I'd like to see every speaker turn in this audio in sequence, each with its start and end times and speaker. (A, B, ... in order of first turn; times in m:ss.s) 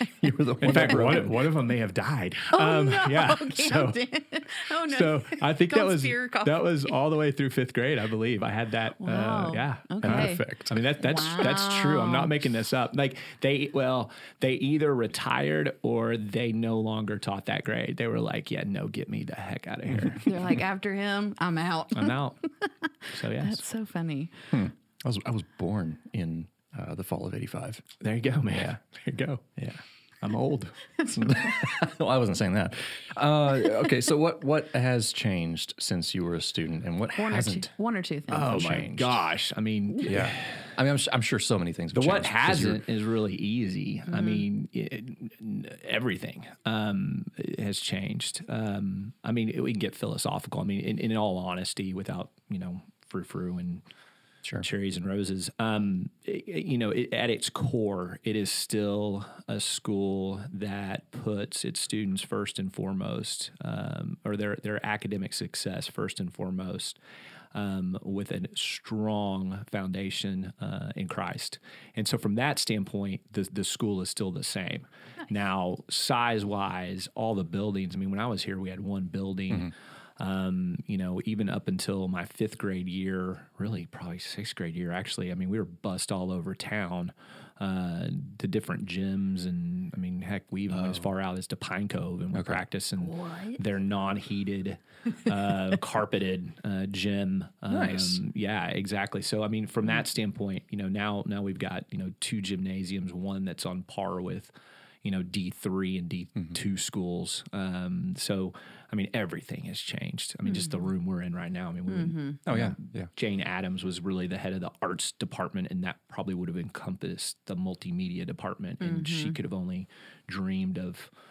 0:00.2-0:01.4 A
0:00.6-0:04.0 B
0:02.5-0:06.7 C
0:04.6-0:20.5 B
0:09.0-0:10.4 C
0:10.0-0:10.7 A
0:11.0-0:12.3 C
0:20.2-0:24.5 C
0:21.9-0:22.4 B
0:23.1-0:23.6 B
0:24.5-0:27.8 A
0:28.0-0:29.5 B
0:29.6-0:29.8 A
0:30.2-0:30.9 B
0:31.0-0:37.7 A
0:37.1-0:38.6 C
0:38.3-0:39.2 A
0:38.3-0:40.7 B
0:40.0-0:42.8 A
0:41.9-0:53.8 B
0:54.6-1:07.0 B
1:07.5-1:44.5 B
1:30.7-1:31.1 A
1:32.3-1:32.6 A
1:33.0-1:33.6 C
1:37.7-1:38.2 A
1:45.0-2:01.1 B
1:50.5-1:50.7 C
1:51.9-1:52.4 C
1:52.5-1:53.1 A
1:58.8-1:59.4 C